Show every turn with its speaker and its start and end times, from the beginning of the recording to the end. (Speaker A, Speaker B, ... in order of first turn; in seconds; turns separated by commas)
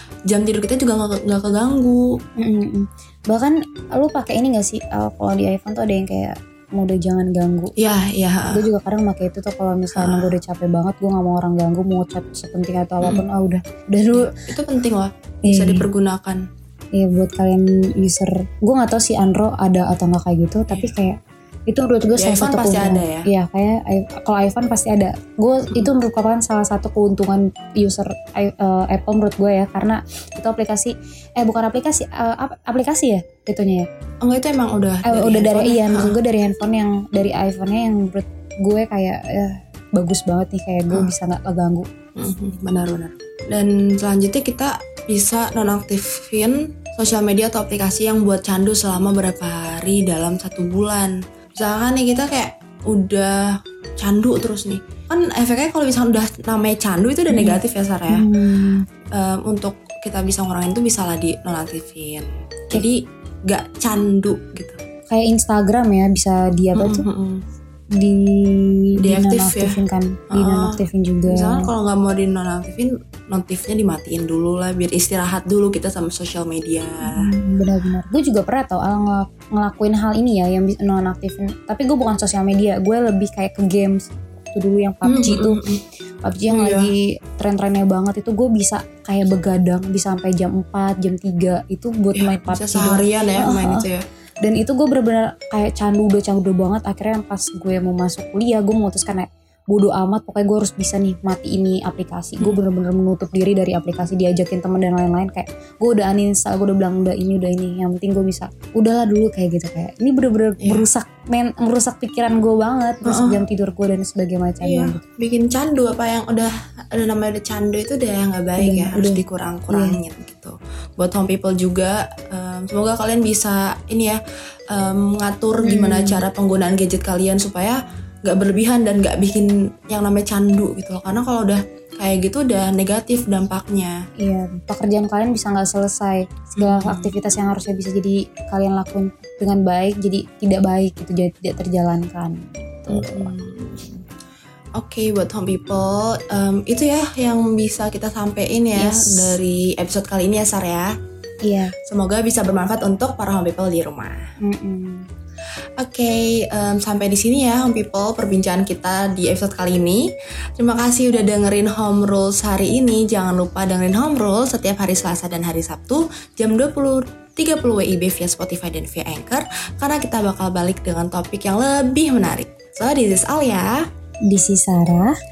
Speaker A: 0.3-2.0, Speaker B: 2.4-7.7, Speaker A: 7.8-8.6, Speaker B: 8.5-14.4, Speaker A: 9.9-10.3, Speaker A: 14.1-16.4, Speaker B: 15.4-15.8, Speaker B: 16.9-21.2, Speaker B: 21.7-33.9, Speaker A: 22.2-23.2, Speaker A: 34.2-36.1, Speaker B: 35.0-41.9, Speaker A: 42.1-58.3, Speaker B: 57.3-57.6, Speaker B: 58.1-58.8, Speaker A: 59.1-64.8, Speaker B: 65.1-67.0, Speaker A: 66.8-67.4, Speaker B: 67.9-71.7, Speaker A: 69.0-69.8, Speaker A: 70.3-77.2, Speaker B: 77.0-85.6, Speaker A: 85.0-85.8, Speaker B: 86.2-93.8, Speaker A: 86.5-86.9, Speaker A: 92.1-94.0, Speaker B: 94.4-115.0, Speaker A: 113.0-113.4, Speaker A: 114.6-124.2, Speaker B: 118.6-120.0, Speaker A: 124.7-134.0, Speaker B: 125.6-126.2, Speaker B: 134.2-143.3, Speaker A: 136.6-137.1, Speaker A: 142.9-144.0, Speaker A: 144.8-150.9, Speaker B: 148.8-149.3, Speaker B: 151.4-151.7, Speaker A: 151.8-154.2, Speaker B: 154.4-155.1, Speaker A: 155.8-173.8, Speaker B: 174.3-175.1